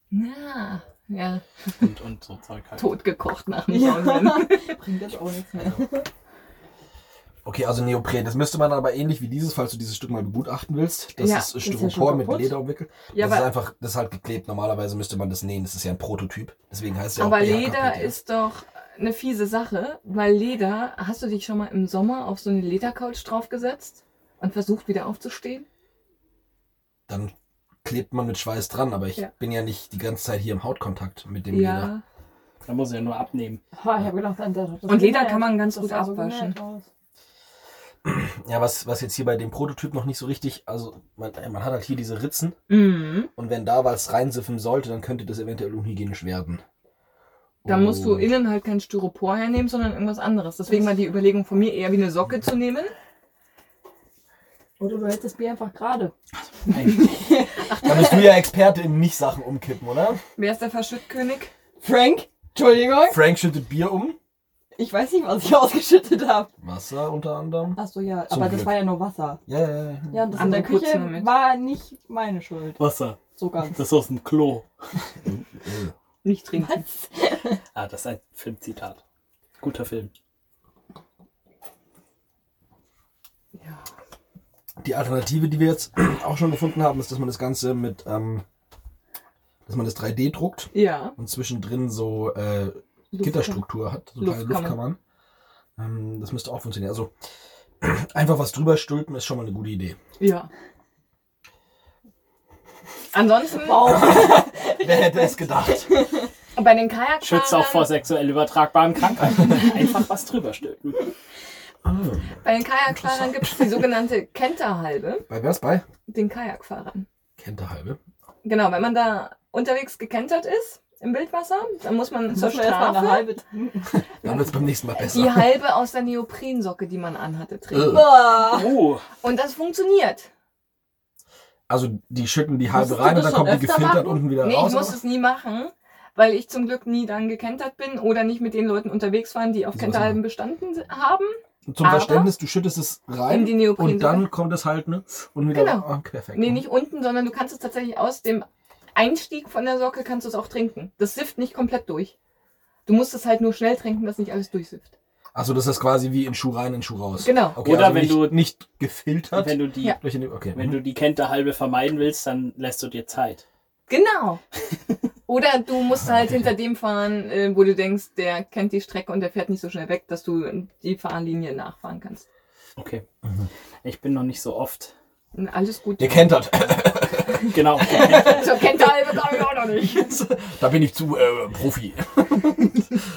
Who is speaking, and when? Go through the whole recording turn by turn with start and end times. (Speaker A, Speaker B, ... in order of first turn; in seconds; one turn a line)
Speaker A: 0.1-1.8
Speaker B: 1.8-2.9
Speaker A: 2.8-4.8
Speaker C: 3.7-6.1
Speaker D: 7.5-18.2
Speaker A: 11.2-11.5
Speaker C: 11.6-12.6
Speaker A: 13.1-13.5
Speaker A: 17.2-25.7
Speaker D: 27.1-27.3
Speaker D: 27.8-31.9
Speaker A: 31.5-32.0
Speaker B: 32.6-33.6
Speaker C: 33.8-36.9
Speaker A: 34.9-36.6
Speaker D: 38.0-42.6
Speaker A: 42.7-43.3
Speaker D: 43.4-46.6
Speaker D: 47.6-48.3
Speaker A: 47.6-52.9
Speaker C: 54.8-56.1
Speaker B: 56.7-57.1
Speaker C: 57.0-58.2
Speaker D: 57.8-60.2
Speaker A: 60.4-61.5
Speaker C: 61.8-63.3
Speaker D: 63.1-64.2
Speaker C: 64.8-66.5
Speaker D: 66.6-68.9
Speaker C: 67.8-69.4
Speaker D: 69.5-70.5
Speaker C: 70.1-72.8
Speaker A: 70.3-71.5
Speaker B: 72.8-74.7
Speaker C: 73.4-73.8
Speaker D: 75.2-75.9
Speaker A: 76.2-76.8
Speaker C: 76.5-77.6
Speaker B: 77.7-79.0
Speaker B: 79.6-80.1
Speaker A: 83.5-83.9
Speaker D: 84.8-88.4
Speaker D: 89.7-95.0
Speaker A: 90.7-91.2
Speaker A: 93.1-93.6
Speaker A: 94.2-94.8
Speaker D: 95.8-97.1
Speaker D: 97.8-100.0
Speaker A: 100.2-100.5
Speaker A: 103.1-104.2
Speaker C: 103.6-106.3
Speaker D: 103.8-105.9
Speaker A: 106.5-107.9
Speaker B: 107.2-111.1
Speaker D: 111.8-113.8
Speaker A: 112.4-115.3
Speaker D: 115.3-115.8
Speaker A: 116.1-117.1
Speaker D: 117.4-118.0
Speaker A: 118.4-123.3
Speaker C: 122.3-124.7
Speaker D: 124.2-125.6
Speaker A: 125.1-128.1
Speaker D: 127.7-128.2
Speaker C: 127.8-128.7
Speaker B: 128.4-129.1
Speaker A: 129.2-130.3
Speaker D: 131.7-135.0
Speaker C: 132.7-134.3
Speaker A: 134.4-142.3
Speaker D: 139.7-140.2
Speaker D: 141.7-146.6
Speaker A: 143.3-144.3
Speaker A: 145.5-152.2
Speaker A: 152.9-154.9
Speaker D: 155.3-160.8
Speaker A: 157.2-157.6
Speaker B: 157.6-158.4
Speaker B: 159.3-160.0
Speaker B: 160.5-163.4
Speaker A: 163.9-164.4
Speaker A: 165.3-172.2
Speaker D: 166.0-166.5
Speaker B: 172.8-173.1
Speaker B: 173.8-174.9
Speaker A: 175.3-176.4
Speaker D: 176.0-179.2
Speaker B: 177.5-178.6
Speaker A: 178.0-180.2
Speaker D: 179.9-182.7